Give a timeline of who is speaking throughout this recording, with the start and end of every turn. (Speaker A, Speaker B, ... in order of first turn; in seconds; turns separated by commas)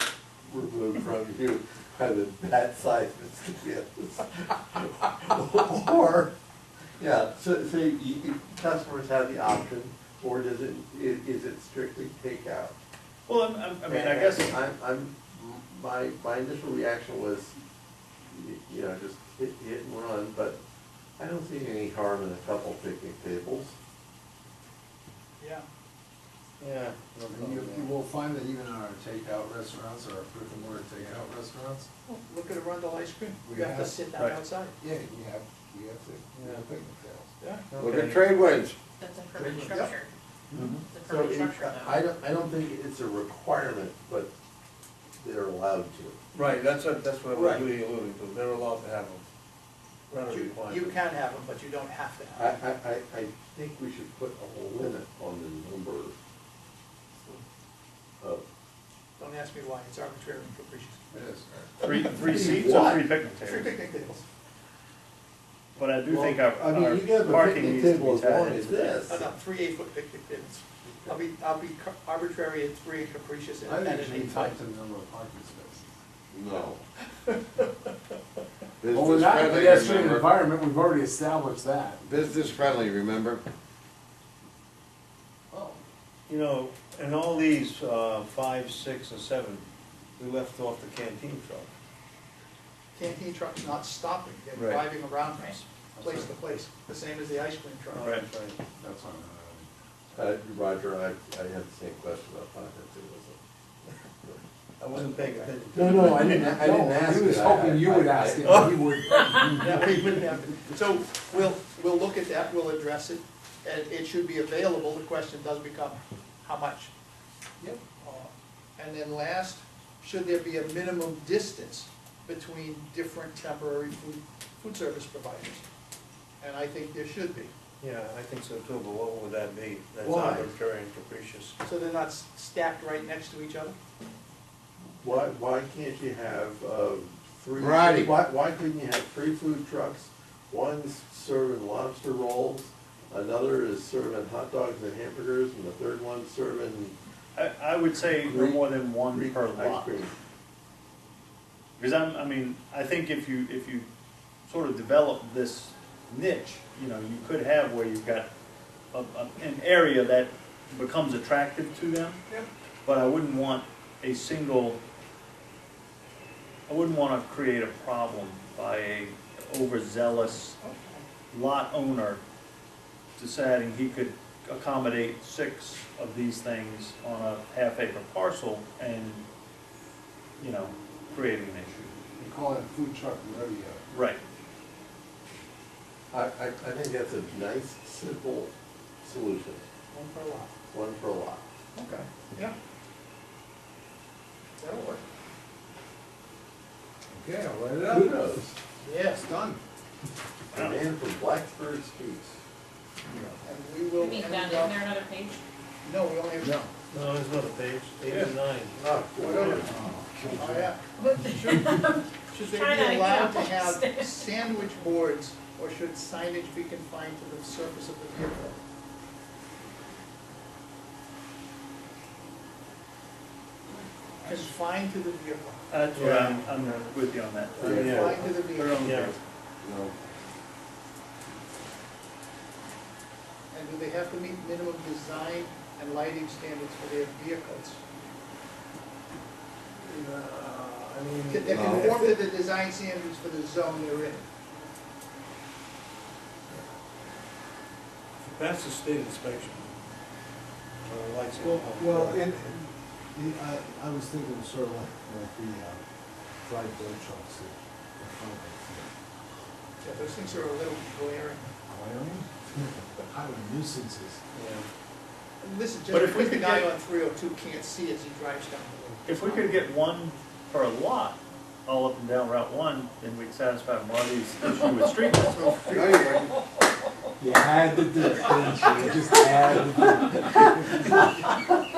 Speaker A: 0.5-6.3, Speaker A: 7.0-12.8, Speaker B: 13.3-14.6, Speaker A: 13.9-17.6, Speaker A: 18.3-20.6, Speaker A: 21.2-23.8, Speaker C: 25.4-25.7, Speaker D: 26.6-27.9, Speaker E: 27.3-31.9, Speaker C: 32.1-34.8, Speaker E: 33.5-34.0, Speaker E: 34.8-37.3, Speaker D: 36.4-36.6, Speaker C: 37.4-37.7, Speaker D: 37.7-38.3, Speaker F: 37.8-38.8, Speaker G: 39.0-40.1, Speaker C: 39.5-40.0, Speaker B: 40.6-40.8, Speaker G: 40.9-42.0, Speaker A: 41.0-44.3, Speaker A: 45.2-46.2, Speaker D: 46.3-49.2, Speaker C: 47.3-47.7, Speaker D: 50.1-51.0, Speaker C: 50.2-52.6, Speaker A: 52.4-56.2, Speaker C: 59.2-61.1, Speaker E: 61.1-61.7, Speaker C: 61.8-62.4, Speaker B: 61.8-63.7, Speaker A: 62.0-63.0, Speaker C: 63.3-64.2, Speaker B: 65.8-69.0, Speaker A: 66.1-69.3, Speaker C: 69.1-74.6, Speaker A: 70.8-71.2, Speaker E: 73.7-75.9, Speaker F: 76.3-76.8, Speaker C: 77.3-77.9, Speaker F: 78.8-80.4, Speaker E: 78.8-82.0, Speaker F: 82.0-83.4, Speaker E: 85.5-85.8, Speaker D: 86.3-89.7, Speaker D: 90.2-91.7, Speaker C: 93.0-98.1, Speaker D: 94.5-94.9, Speaker E: 96.0-96.3, Speaker D: 97.9-98.6, Speaker B: 98.0-98.3, Speaker E: 98.8-99.7, Speaker A: 100.1-103.4, Speaker D: 104.8-106.1, Speaker A: 104.9-108.6, Speaker E: 105.8-109.9, Speaker D: 108.5-108.7, Speaker C: 109.5-116.9, Speaker C: 118.0-125.7, Speaker C: 126.4-127.5, Speaker D: 127.8-131.6, Speaker A: 130.0-130.5, Speaker C: 131.6-133.8, Speaker A: 135.0-146.9, Speaker F: 137.6-138.1, Speaker B: 147.3-150.0, Speaker A: 148.2-150.1, Speaker B: 151.8-153.9, Speaker B: 154.5-158.3, Speaker B: 158.9-162.2, Speaker B: 162.8-164.8, Speaker B: 166.7-170.6, Speaker C: 170.6-171.1, Speaker B: 171.3-172.2, Speaker B: 173.2-179.2, Speaker B: 180.4-181.9, Speaker E: 182.2-183.8, Speaker B: 183.9-184.2, Speaker A: 186.1-189.6, Speaker C: 189.9-190.5, Speaker A: 190.7-191.4, Speaker C: 191.8-192.6, Speaker C: 194.6-195.0, Speaker E: 197.1-198.2, Speaker A: 197.9-198.6, Speaker C: 198.8-199.3, Speaker E: 199.2-199.6, Speaker A: 200.5-202.4, Speaker B: 200.5-200.8, Speaker C: 203.4-204.9, Speaker G: 204.0-205.4, Speaker C: 205.8-206.7, Speaker D: 206.9-208.8, Speaker A: 208.8-209.8, Speaker C: 209.2-209.6, Speaker E: 209.6-210.7, Speaker C: 210.4-218.6, Speaker G: 211.0-214.3, Speaker C: 224.2-225.7, Speaker B: 225.7-229.2, Speaker D: 225.9-226.9, Speaker A: 227.6-228.2, Speaker C: 227.6-229.0, Speaker D: 227.6-229.2, Speaker F: 229.6-229.9, Speaker C: 233.5-237.8, Speaker E: 239.8-241.9, Speaker C: 241.3-244.2, Speaker F: 241.5-241.9, Speaker D: 248.2-249.7, Speaker D: 250.8-252.2, Speaker E: 251.3-255.8, Speaker E: 256.4-258.9, Speaker C: 259.8-261.5, Speaker E: 261.7-262.3, Speaker E: 263.0-264.2, Speaker D: 264.4-264.6, Speaker C: 265.4-269.5, Speaker B: 265.9-266.7, Speaker B: 269.1-275.6, Speaker C: 275.2-276.2, Speaker F: 275.7-276.4, Speaker E: 277.2-281.0